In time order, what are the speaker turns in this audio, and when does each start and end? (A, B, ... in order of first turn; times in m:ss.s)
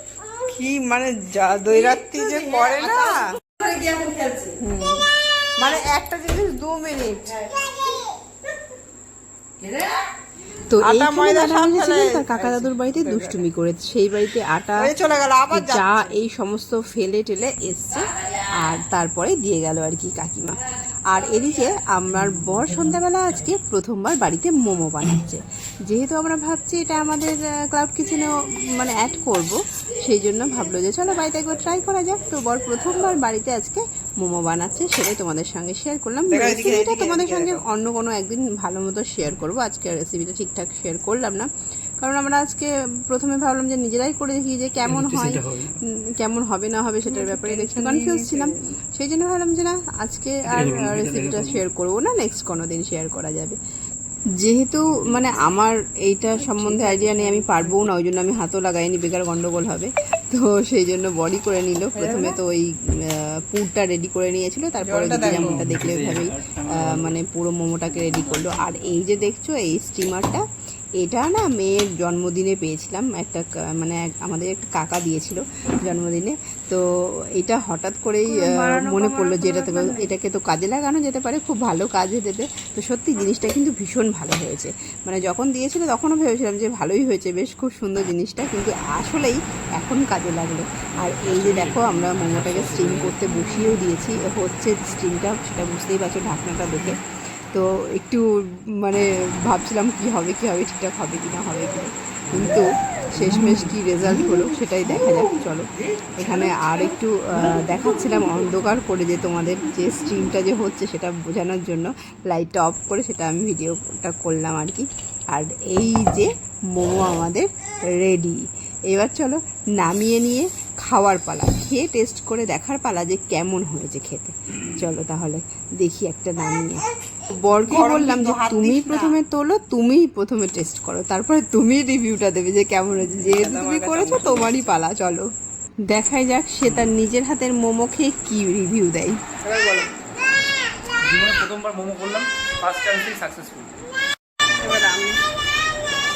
0:00.5-0:03.2 A
0:01.7-0:04.6 B
0:04.6-0:05.0 A
0:05.6-0:07.8 A
0:10.7-0:14.9 C
0:10.8-0:13.4 A
0:14.8-0:16.1 A
0:15.5-0:41.5 C
0:36.3-0:37.6 A
0:42.0-0:53.6 C
0:44.8-0:45.7 D
0:47.1-0:48.5 A
0:50.5-0:51.6 D
0:54.4-1:10.4 C
0:54.9-0:55.5 D
0:56.4-0:57.8 A
1:01.9-1:02.4 A
1:04.8-1:05.6 A
1:05.0-1:07.2 D
1:08.1-1:08.8 D
1:11.0-1:16.8 C
1:17.3-1:37.0 C
1:18.3-1:20.0 A
1:31.0-1:33.2 D
1:37.5-2:06.8 C
2:07.4-2:15.3 C
2:07.7-2:09.2 A
2:13.1-2:14.7 A
2:15.9-2:19.2 C
2:16.6-2:16.9 D
2:19.5-2:19.8 B
2:21.0-2:23.8 D
2:24.6-2:25.2 A